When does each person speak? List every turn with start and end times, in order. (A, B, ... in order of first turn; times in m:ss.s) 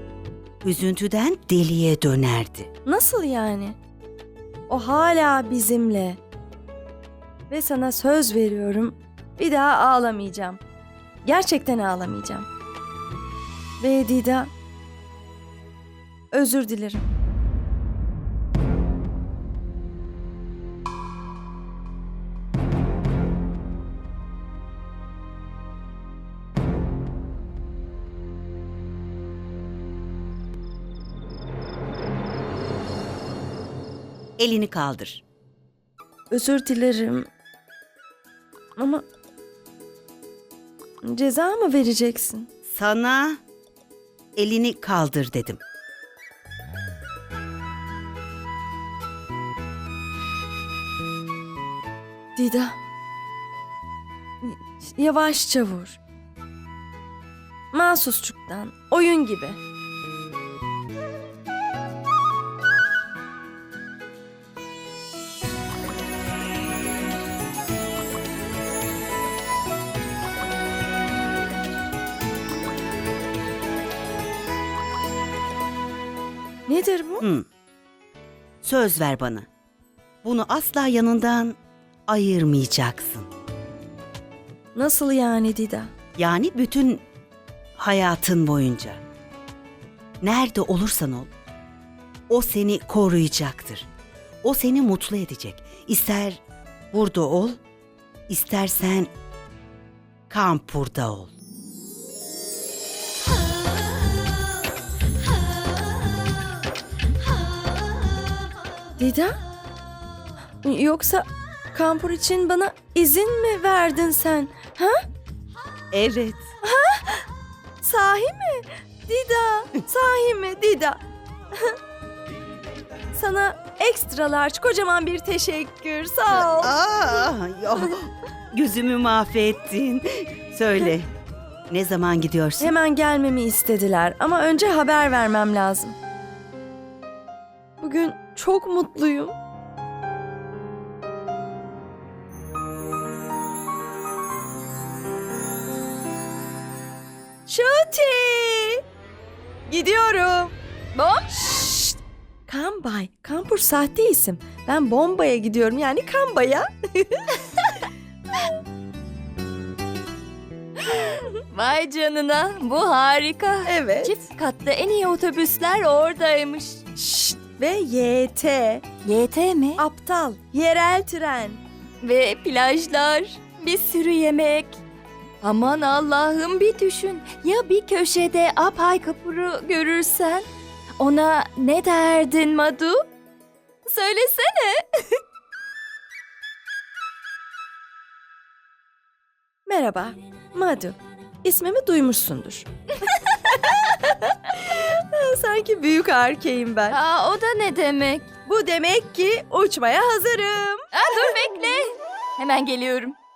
0:00.6-0:02.7 A
0:02.9-0:03.8 B
0:04.7-0:06.2 B
0:07.5-0:10.6 B
0:11.2-0:12.5 B
0:13.8-0:14.5 B
0:16.3-0:17.1 B
0:34.4-0:35.2 A
0:36.3-0:37.3 B
0:38.8-0:39.0 B
0:41.0-0:42.5 B
0:42.7-0:43.4 A
0:44.4-0:45.6 A
0:52.4-0:52.8 B
0:54.4-0:56.0 B
0:57.7-0:59.6 B
1:16.7-1:17.2 B
1:17.2-1:17.5 A
1:18.6-1:19.5 A
1:20.2-1:23.3 A
1:24.8-1:25.9 B
1:26.2-1:27.0 A
1:27.8-1:29.0 A
1:30.2-1:31.3 A
1:32.3-1:33.9 A
1:34.4-1:36.4 A
1:36.9-1:37.6 A
1:38.3-1:39.1 A
1:40.3-1:41.3 A
1:49.0-1:49.4 B
1:50.6-1:55.0 B
1:55.9-1:56.5 A
1:56.6-1:57.3 B
1:57.8-2:01.0 B
2:03.1-2:06.7 B
2:06.3-2:11.1 A
2:11.7-2:12.8 A
2:12.6-2:16.0 B
2:17.8-2:19.3 B
2:27.5-2:28.8 B
2:29.7-2:30.5 B
2:31.0-2:31.7 C
2:31.6-2:32.0 B
2:32.5-2:37.6 B
2:40.9-2:46.8 C
2:43.6-2:44.3 B
2:47.0-2:48.8 B
2:49.0-2:49.8 C
2:49.8-2:51.6 B
2:52.0-2:54.8 C
2:55.4-3:00.5 C
3:01.0-3:03.1 C
3:03.9-3:05.0 C
3:09.7-3:12.7 B
3:13.2-3:17.0 B
3:16.9-3:18.3 C
3:18.5-3:21.3 B
3:20.9-3:23.2 C